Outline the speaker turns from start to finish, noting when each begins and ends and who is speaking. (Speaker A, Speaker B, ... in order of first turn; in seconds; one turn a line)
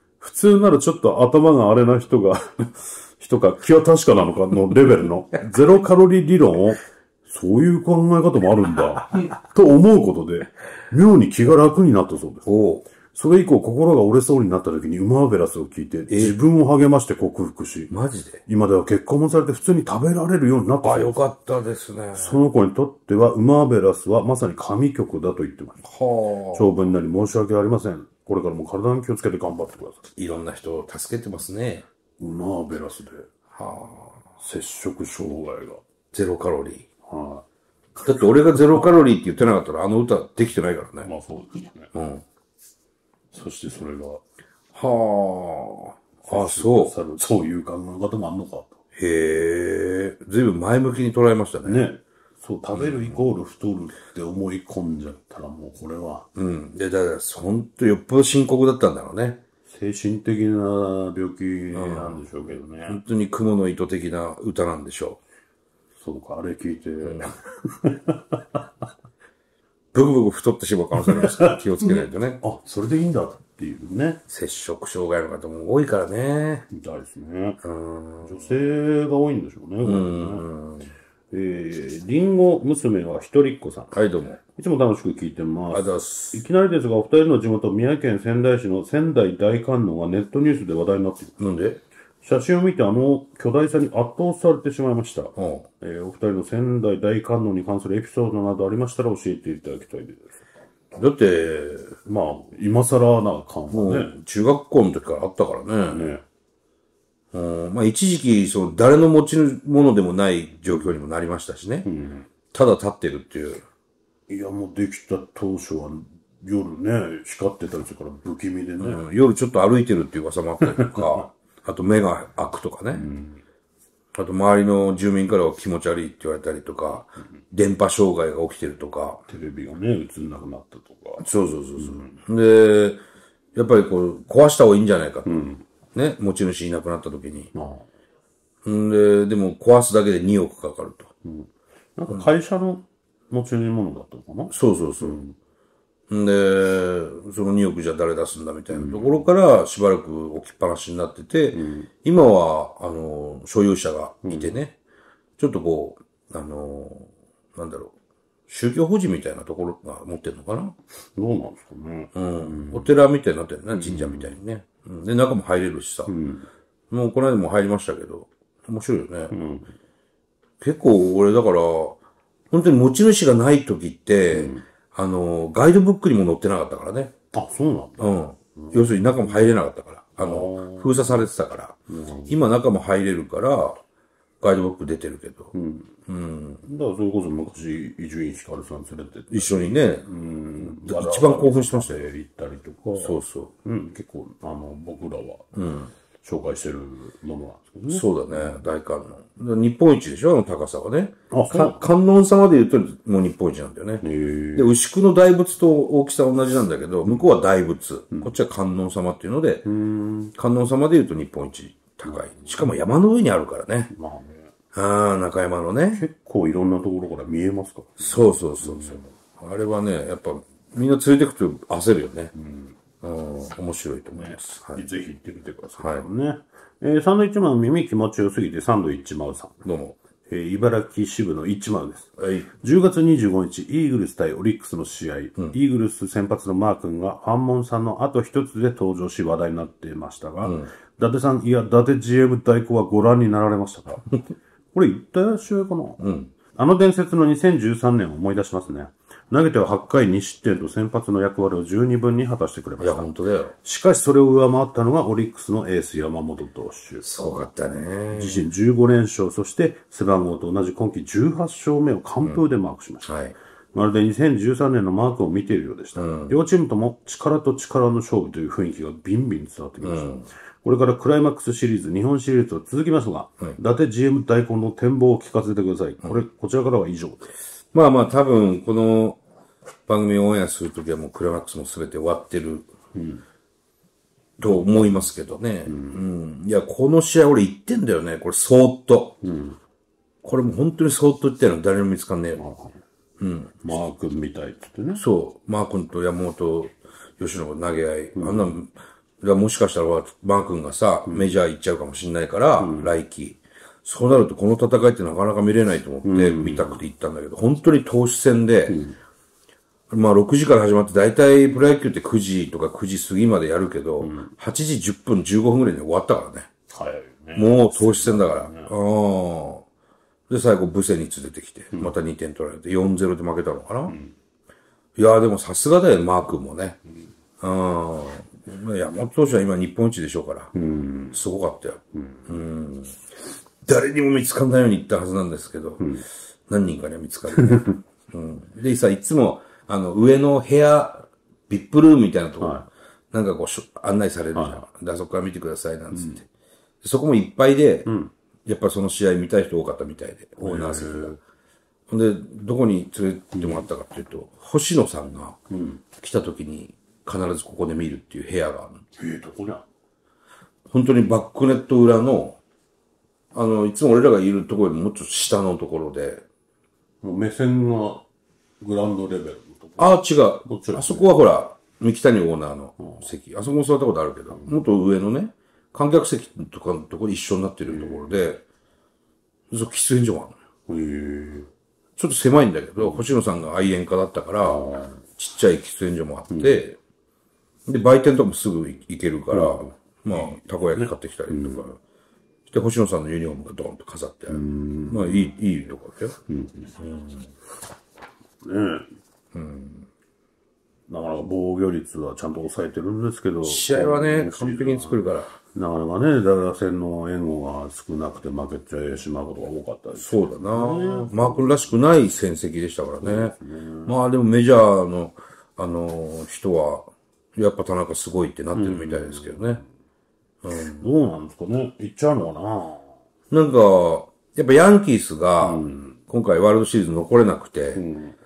Speaker A: 0.2-12.4
Speaker B: 12.4-12.8
Speaker A: 13.1-17.9
Speaker B: 16.1-16.4
Speaker B: 17.9-18.4
Speaker A: 18.4-21.2
Speaker B: 20.8-22.4
Speaker A: 22.1-25.8
Speaker B: 25.8-26.7
Speaker A: 26.5-30.1
Speaker B: 30.1-31.9
Speaker A: 32.2-33.3
Speaker B: 33.5-34.2
Speaker A: 34.4-35.8
Speaker B: 36.1-36.9
Speaker A: 37.0-37.4
Speaker B: 38.0-41.1
Speaker A: 41.0-41.9
Speaker B: 41.9-42.2
Speaker A: 43.3-44.2
Speaker B: 44.7-46.9
Speaker A: 46.2-48.8
Speaker B: 48.9-51.9
Speaker A: 51.6-56.3
Speaker B: 52.7-53.2
Speaker B: 56.3-59.4
Speaker A: 59.6-63.0
Speaker B: 61.7-62.2
Speaker B: 62.9-65.2
Speaker A: 66.0-68.6
Speaker B: 67.0-67.3
Speaker B: 69.9-72.4
Speaker A: 71.0-71.9
Speaker A: 72.4-74.2
Speaker B: 74.3-76.7
Speaker A: 76.7-77.6
Speaker B: 77.6-78.4
Speaker A: 78.2-80.5
Speaker B: 79.8-80.9
Speaker A: 81.3-84.0
Speaker B: 83.9-84.4
Speaker A: 84.5-91.4
Speaker B: 85.7-86.4
Speaker B: 91.4-91.8
Speaker A: 92.2-100.4
Speaker B: 95.3-95.7
Speaker B: 100.9-102.0
Speaker A: 102.0-104.1
Speaker B: 103.7-106.1
Speaker A: 105.9-106.2
Speaker B: 107.3-111.9
Speaker A: 111.8-112.3
Speaker B: 112.5-113.6
Speaker A: 114.3-119.0
Speaker B: 118.8-123.0
Speaker A: 120.6-121.0
Speaker A: 122.9-123.4
Speaker B: 124.1-129.2
Speaker A: 129.3-131.3
Speaker B: 131.2-133.0
Speaker A: 131.8-132.1
Speaker B: 133.5-135.3
Speaker A: 135.2-135.6
Speaker B: 135.9-137.5
Speaker A: 137.5-137.9
Speaker B: 138.6-141.1
Speaker A: 141.2-145.3
Speaker B: 144.5-145.2
Speaker B: 146.1-154.7
Speaker A: 148.7-149.2
Speaker A: 151.5-151.9
Speaker A: 154.2-154.5
Speaker B: 155.4-157.9
Speaker B: 158.5-160.8
Speaker A: 161.2-162.9
Speaker B: 162.1-166.1
Speaker A: 163.7-164.3
Speaker A: 166.1-166.5
Speaker B: 166.9-169.3
Speaker A: 169.3-169.7
Speaker B: 170.6-172.0
Speaker B: 172.5-177.1
Speaker A: 174.3-174.7
Speaker A: 177.3-179.5
Speaker B: 178.0-183.8
Speaker A: 180.2-181.2
Speaker A: 181.9-182.4
Speaker B: 184.4-185.5
Speaker A: 185.5-185.9
Speaker B: 186.1-186.6
Speaker A: 186.6-195.5
Speaker B: 189.3-190.1
Speaker B: 190.6-192.1
Speaker B: 193.0-193.5
Speaker B: 195.5-195.9
Speaker A: 196.2-198.6
Speaker B: 197.9-204.0
Speaker A: 201.3-201.8
Speaker A: 204.0-204.7
Speaker B: 204.5-209.7
Speaker A: 209.6-210.3
Speaker B: 210.3-213.9
Speaker A: 213.9-214.5
Speaker B: 214.7-216.1
Speaker A: 215.9-219.1
Speaker B: 218.0-222.3
Speaker A: 222.3-222.7
Speaker B: 223.0-224.8
Speaker A: 224.1-229.6
Speaker B: 225.8-226.1
Speaker B: 229.6-230.0
Speaker A: 230.3-244.2
Speaker B: 232.2-232.5
Speaker B: 240.4-240.7
Speaker A: 244.7-253.1
Speaker B: 246.0-246.3
Speaker B: 252.8-253.5
Speaker A: 253.6-257.0
Speaker B: 257.0-258.5
Speaker A: 258.1-263.1
Speaker B: 263.1-263.3
Speaker A: 263.7-270.1
Speaker B: 265.9-266.4
Speaker B: 269.8-270.3
Speaker A: 270.6-277.3
Speaker B: 277.7-279.2
Speaker B: 279.9-282.7
Speaker A: 282.9-283.2
Speaker B: 284.4-289.2
Speaker A: 285.6-286.0
Speaker A: 289.2-289.6
Speaker B: 290.2-292.4
Speaker A: 292.4-292.8
Speaker B: 293.2-293.6
Speaker A: 293.6-295.0
Speaker B: 294.9-308.8
Speaker A: 298.1-298.5
Speaker A: 301.1-301.3
Speaker A: 302.6-302.9
Speaker A: 306.0-306.8
Speaker A: 308.7-309.0
Speaker B: 309.9-316.5
Speaker A: 314.0-314.3
Speaker A: 316.7-318.7
Speaker B: 317.3-319.6
Speaker B: 320.3-323.9
Speaker A: 323.9-324.1
Speaker B: 324.9-326.8
Speaker B: 327.4-330.5
Speaker A: 330.5-331.2
Speaker B: 331.1-333.1
Speaker A: 331.9-332.3
Speaker B: 333.6-335.9
Speaker A: 335.8-336.0
Speaker B: 336.5-346.3
Speaker A: 337.3-337.8
Speaker A: 342.4-342.7
Speaker A: 344.3-344.6
Speaker A: 345.9-346.2
Speaker B: 346.8-347.9
Speaker A: 347.9-348.1
Speaker B: 348.4-351.1
Speaker A: 350.4-351.2
Speaker B: 351.9-355.4
Speaker A: 353.3-353.6
Speaker A: 355.5-355.8
Speaker B: 356.0-358.8
Speaker A: 359.0-359.6
Speaker B: 360.7-362.4
Speaker B: 363.3-366.2
Speaker A: 367.0-368.1
Speaker A: 368.6-369.9
Speaker B: 369.8-378.4
Speaker A: 370.4-371.1
Speaker A: 372.8-373.1
Speaker A: 374.3-374.6
Speaker A: 377.6-378.2
Speaker B: 379.5-380.4
Speaker A: 380.7-381.5
Speaker B: 381.9-384.6
Speaker A: 384.4-385.0
Speaker B: 385.1-386.8
Speaker A: 386.3-386.6
Speaker B: 387.6-391.8
Speaker A: 389.3-391.7
Speaker B: 392.5-396.1
Speaker A: 394.3-395.4
Speaker A: 396.3-396.7
Speaker B: 396.8-397.3
Speaker A: 398.4-398.9
Speaker B: 399.3-399.9
Speaker A: 400.9-405.0
Speaker B: 403.4-405.3
Speaker A: 405.5-411.6
Speaker B: 409.9-419.6
Speaker A: 413.0-413.9
Speaker A: 418.5-419.6
Speaker B: 420.4-420.9
Speaker A: 420.7-422.8
Speaker B: 423.3-427.8
Speaker A: 425.4-426.0
Speaker A: 427.7-428.2